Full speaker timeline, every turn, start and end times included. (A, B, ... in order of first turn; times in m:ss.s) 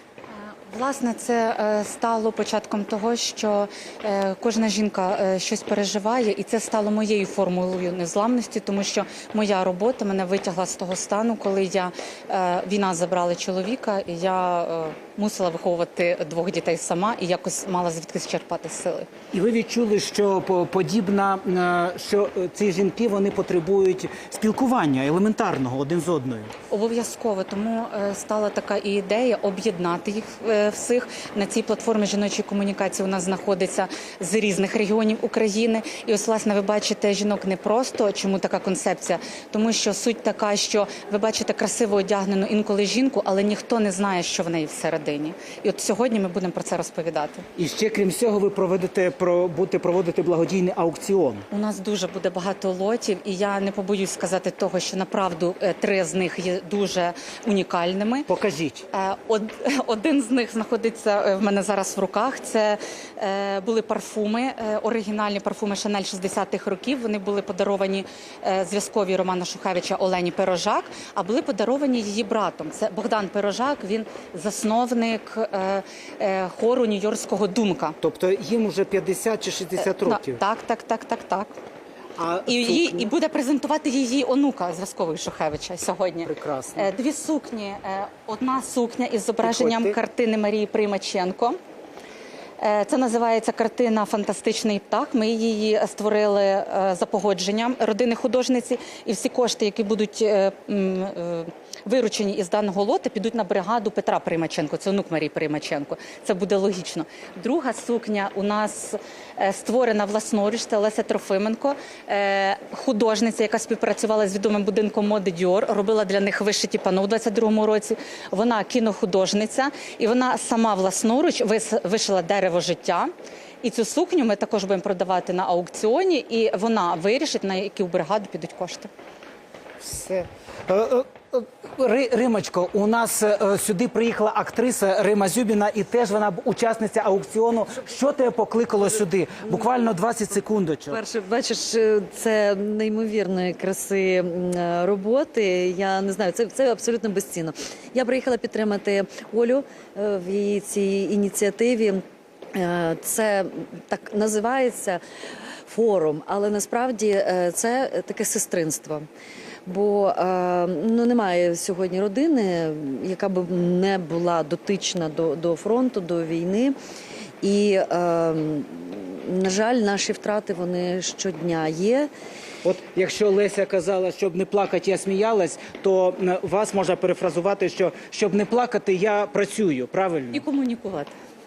0:00.3-0:19.1 A
0:19.3-0:26.5 B
0:26.7-0:47.4 A
0:47.6-0:51.4 B
0:51.5-0:58.3 A
0:58.3-0:58.8 B
0:58.9-1:18.0 A
1:18.0-1:20.4 B
1:19.8-1:21.5 A
1:22.2-1:23.1 B
1:22.4-1:31.6 A
1:26.2-1:26.9 B
1:29.4-1:30.0 B
1:32.6-2:03.1 A
2:03.6-2:08.9 A
2:09.8-2:21.0 B
2:20.9-2:32.0 C
2:32.5-2:35.0 C
2:35.7-2:39.1 C
2:39.7-2:46.8 C
2:47.4-2:52.1 C
2:52.6-3:00.4 B
3:00.3-3:01.1 A